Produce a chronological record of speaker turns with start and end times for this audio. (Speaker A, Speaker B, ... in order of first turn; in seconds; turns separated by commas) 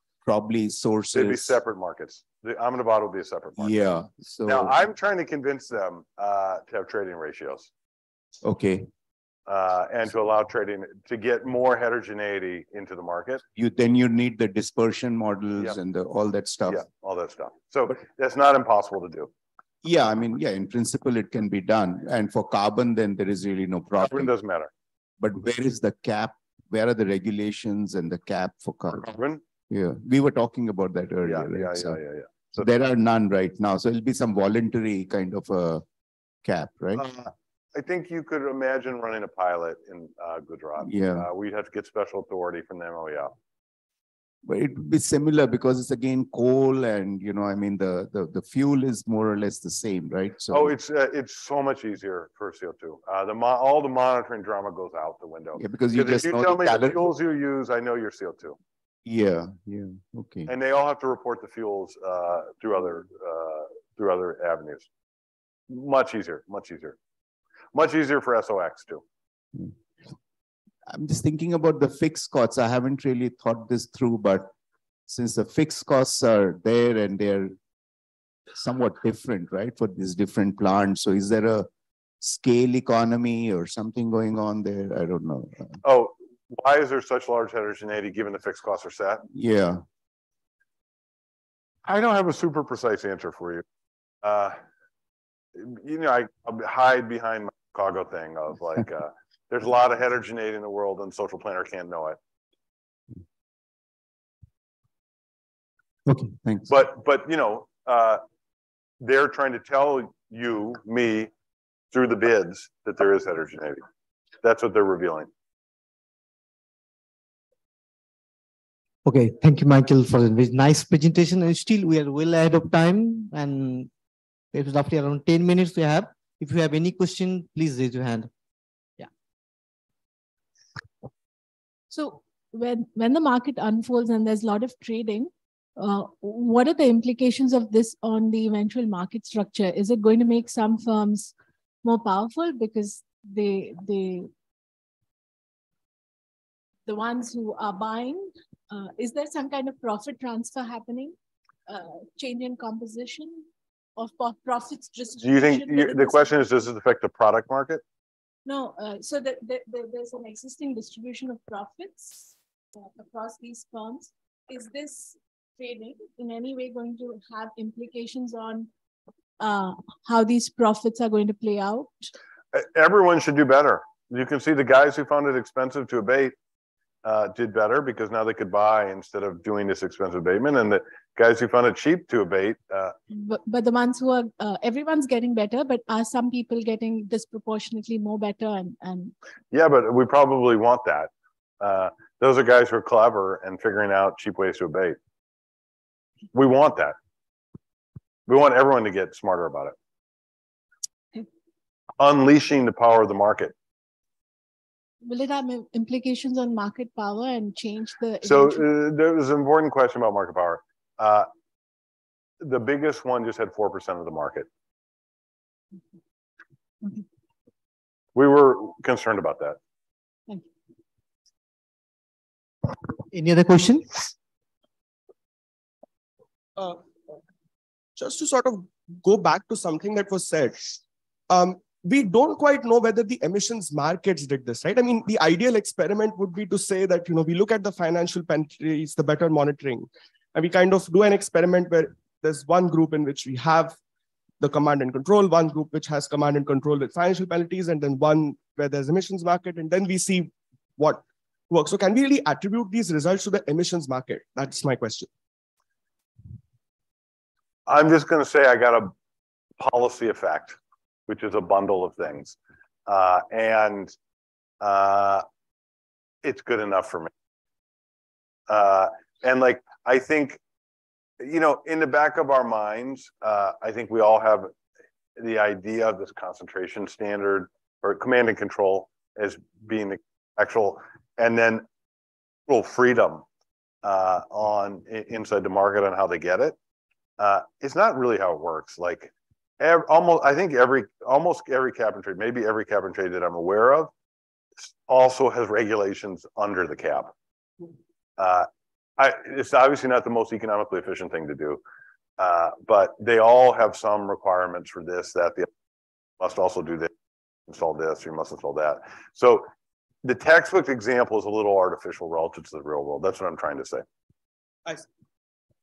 Speaker A: 0.2-1.6, Speaker B: 1.1-3.8, Speaker A: 3.6-4.8, Speaker B: 4.5-7.7, Speaker A: 8.4-8.9, Speaker B: 9.5-13.4, Speaker A: 13.6-16.9, Speaker B: 16.7-19.3, Speaker A: 19.8-24.3, Speaker B: 24.0-24.7, Speaker A: 25.2-29.1, Speaker B: 28.9-29.4, Speaker A: 29.7-32.0, Speaker B: 31.2-32.7, Speaker A: 32.5-35.8, Speaker A: 36.4-37.1, Speaker B: 37.0-43.3, Speaker A: 40.8-41.3, Speaker A: 44.5-50.7, Speaker B: 50.5-58.6, Speaker A: 55.6-57.1, Speaker A: 59.1-60.5, Speaker B: 60.5-64.9, Speaker B: 65.7-67.0, Speaker B: 67.7-69.0, Speaker A: 70.9-74.5, Speaker A: 75.1-77.5, Speaker A: 78.6-81.7, Speaker A: 82.2-85.8, Speaker B: 85.8-89.2, Speaker A: 89.3-89.8, Speaker B: 91.8-93.6, Speaker B: 94.2-94.6, Speaker B: 95.6-102.2, Speaker A: 106.1-106.7, Speaker B: 106.7-108.2, Speaker B: 109.0-111.3, Speaker B: 111.9-113.8, Speaker B: 114.4-115.3, Speaker C: 119.0-123.9, Speaker C: 124.5-128.3, Speaker D: 131.9-144.3, Speaker D: 146.9-151.2, Speaker D: 151.7-156.3, Speaker B: 155.2-157.8, Speaker D: 158.5-168.7, Speaker D: 169.4-172.1, Speaker B: 172.5-176.3, Speaker B: 177.0-182.9, Speaker D: 183.1-189.1, Speaker B: 189.5-191.1, Speaker B: 191.6-195.0, Speaker B: 196.3-197.0, Speaker B: 198.3-199.8, Speaker B: 202.0-203.5, Speaker D: 205.0-208.7, Speaker B: 208.2-211.3, Speaker B: 212.4-214.5, Speaker B: 218.2-219.6, Speaker C: 223.1-223.9, Speaker E: 228.0-230.8, Speaker E: 231.3-243.8, Speaker E: 244.4-255.1, Speaker B: 257.7-258.9, Speaker B: 259.6-260.6, Speaker B: 261.1-262.4, Speaker B: 262.9-263.9, Speaker B: 264.6-265.2, Speaker B: 266.2-267.1, Speaker B: 268.5-270.4, Speaker B: 271.2-274.5, Speaker B: 275.2-281.6, Speaker B: 282.5-283.2, Speaker B: 283.8-286.6, Speaker B: 287.2-293.9, Speaker B: 294.6-297.1, Speaker B: 298.2-298.5, Speaker B: 299.0-301.6, Speaker B: 302.2-305.5, Speaker B: 306.2-306.9, Speaker B: 307.5-309.5, Speaker B: 310.0-313.8